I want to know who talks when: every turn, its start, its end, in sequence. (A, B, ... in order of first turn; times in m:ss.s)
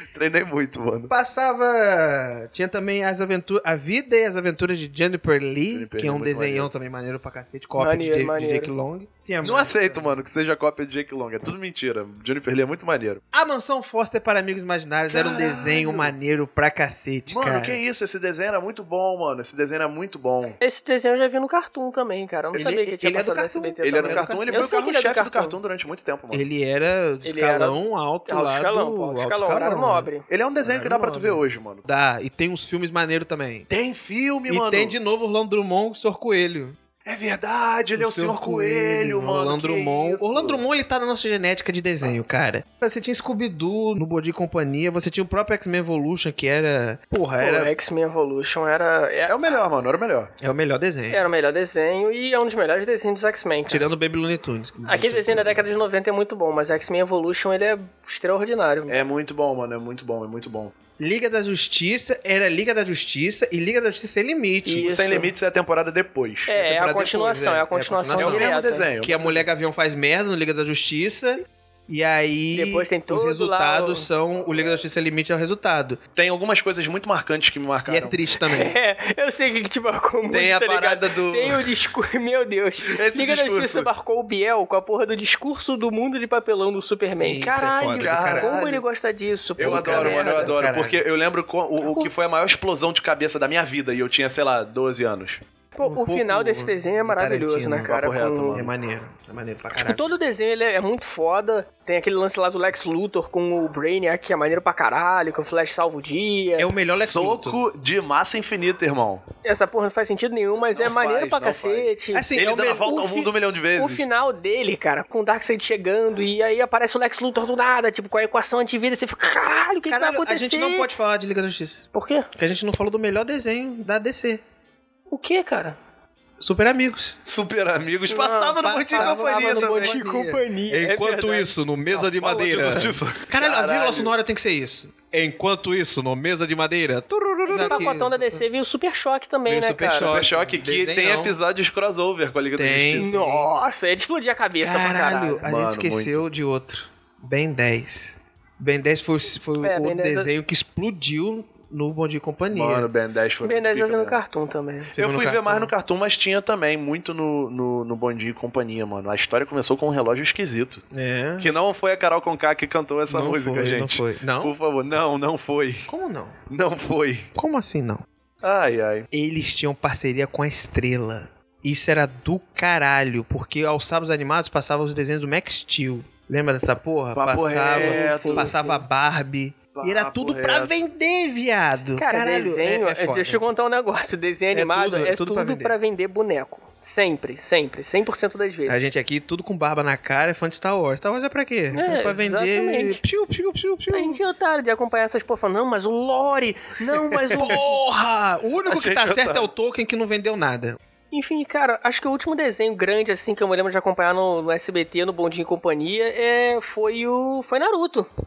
0:00.1-0:01.1 A
0:01.1-0:10.2 B
0:05.7-0:06.7 A
0:07.8-0:08.7 C
0:09.4-0:13.2 A
0:13.3-0:17.8 B
0:15.1-0:16.2 A
0:17.3-0:20.6 A
0:20.6-0:25.6 C
0:22.5-0:24.7 B
0:23.8-0:26.4 A
0:26.3-0:33.7 B
0:27.2-0:30.2 C
0:30.3-0:31.9 A
0:33.7-0:34.9 A
0:34.5-0:36.8 B
0:37.1-0:40.6 A
0:38.0-0:47.7 B
0:47.4-0:49.6 C
0:49.3-0:50.3 A
0:50.4-0:51.2 B
0:51.1-0:53.8 C
0:53.7-0:55.7 B
0:54.9-0:59.0 C
0:58.9-1:00.7 A
1:01.0-1:04.9 B
1:04.6-1:05.3 C
1:04.8-1:06.6 A
1:06.5-1:08.9 C
1:06.5-1:16.0 B
1:08.2-1:09.4 A
1:12.5-1:14.1 C
1:16.2-1:18.2 A
1:17.9-1:18.7 B
1:18.5-1:30.5 C
1:20.3-1:21.7 A
1:22.8-1:23.9 A
1:27.2-1:28.6 B
1:27.9-1:28.8 A
1:29.6-1:31.0 B
1:29.6-1:35.4 A
1:31.8-1:32.1 C
1:35.8-1:38.6 C
1:35.8-1:37.9 B
1:37.9-1:38.7 A
1:38.5-1:40.0 B
1:39.8-1:46.7 C
1:46.6-1:47.6 B
1:46.9-1:49.2 A
1:49.4-2:00.9 C
1:50.8-1:54.1 A
1:52.1-1:53.0 B
1:59.9-2:01.8 B
2:01.9-2:02.3 C
2:02.4-2:04.4 B
2:05.1-2:05.8 C
2:06.4-2:07.2 B
2:07.3-2:10.0 A
2:08.1-2:11.5 C
2:08.6-2:18.4 B
2:11.9-2:14.1 A
2:12.5-2:12.8 C
2:17.5-2:17.9 A
2:17.5-2:20.2 C
2:19.5-2:21.4 B
2:19.8-2:23.4 A
2:22.6-2:23.1 B
2:23.0-2:25.4 C
2:24.6-2:32.9 B
2:25.4-2:26.2 A
2:29.6-2:30.3 C
2:32.5-2:34.2 A
2:33.4-2:34.9 C
2:34.9-2:35.7 B
2:35.0-2:40.8 A
2:40.9-2:41.5 B
2:41.4-2:45.9 A
2:43.1-2:44.6 B
2:45.9-2:46.4 B
2:46.5-2:47.3 A
2:47.4-2:48.0 B
2:48.4-2:49.1 A
2:49.1-3:03.4 B
2:57.2-2:58.5 A
2:57.7-2:58.8 C
2:59.7-3:00.7 A
3:02.0-3:08.9 C
3:04.5-3:05.7 B
3:08.7-3:14.2 B
3:11.7-3:13.0 C
3:13.9-3:17.7 C
3:17.1-3:17.6 A
3:17.3-3:20.8 B
3:18.7-3:19.5 A
3:21.1-3:28.1 C